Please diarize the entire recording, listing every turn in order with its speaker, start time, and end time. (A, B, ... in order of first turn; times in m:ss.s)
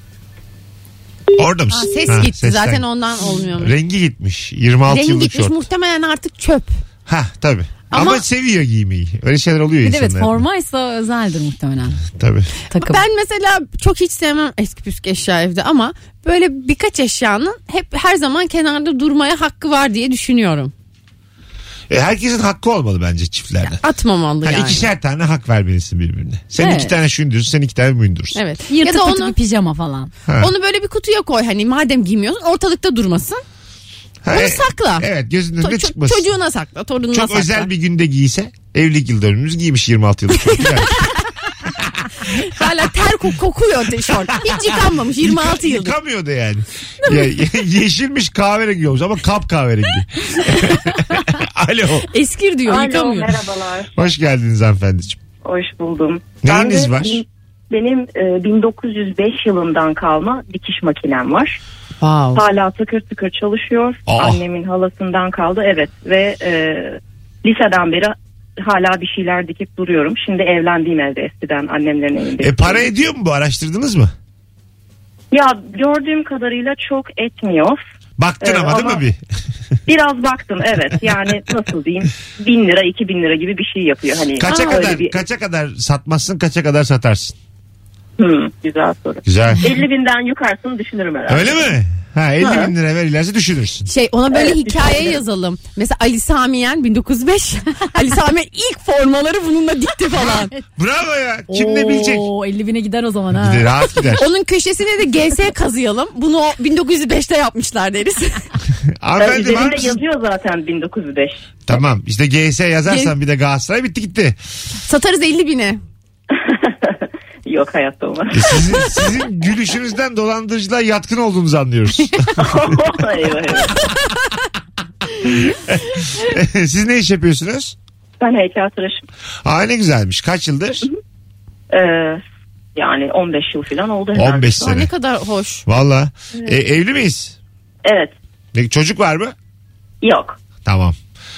0:01.4-0:02.8 A
0:01.7-0:03.8 B
0:03.6-0:05.6 A
0:04.9-0:06.8 B
0:07.1-0:10.4 A
0:07.9-0:08.2 B
0:09.8-0:12.1 C
0:12.2-0:12.5 A
0:12.7-0:13.0 C
0:12.7-0:20.7 B
0:21.9-0:23.8 A
0:23.7-0:24.8 B
0:24.4-0:28.4 A
0:26.6-0:27.0 C
0:28.4-0:29.4 B
0:28.7-0:30.1 C
0:30.3-0:30.5 A
0:30.4-0:33.4 B
0:34.2-0:36.2 A
0:34.3-0:35.1 B
0:35.6-0:37.7 B
0:37.1-0:41.1 A
0:40.6-0:41.1 B
0:41.6-0:42.2 A
0:42.4-0:46.0 B
0:44.6-0:52.1 A
0:52.1-0:53.3 B
0:52.7-0:54.0 D
0:54.0-0:55.2 A
0:55.4-1:01.6 D
0:56.4-0:57.2 A
1:02.0-1:02.4 B
1:02.4-1:12.8 D
1:04.1-1:04.4 A
1:12.4-1:14.1 A
1:15.3-1:17.8 D
1:18.2-1:19.2 A
1:18.4-1:19.0 D
1:19.9-1:25.2 D
1:24.4-1:27.4 A
1:28.2-1:31.7 D
1:29.2-1:29.7 A
1:31.3-1:33.9 A
1:32.4-1:32.7 D
1:33.9-1:40.5 B
1:34.3-1:35.2 D
1:40.2-1:42.3 A
1:41.5-1:43.9 C
1:43.4-1:44.3 A
1:44.2-1:48.5 B
1:49.0-1:50.0 A
1:49.2-1:51.4 D
1:51.7-1:54.4 A
1:52.9-1:53.1 B
1:54.9-1:55.8 B
1:56.3-1:59.0 D
1:58.3-2:02.7 A
2:02.4-2:03.8 D
2:05.2-2:07.8 A
2:08.2-2:09.0 D
2:09.4-2:10.9 A
2:11.7-2:12.2 D
2:12.8-2:14.7 D
2:14.2-2:14.9 A
2:14.6-2:15.6 B
2:15.7-2:17.4 A
2:17.8-2:18.1 D
2:18.5-2:19.4 A
2:20.0-2:20.4 D
2:20.6-2:21.0 A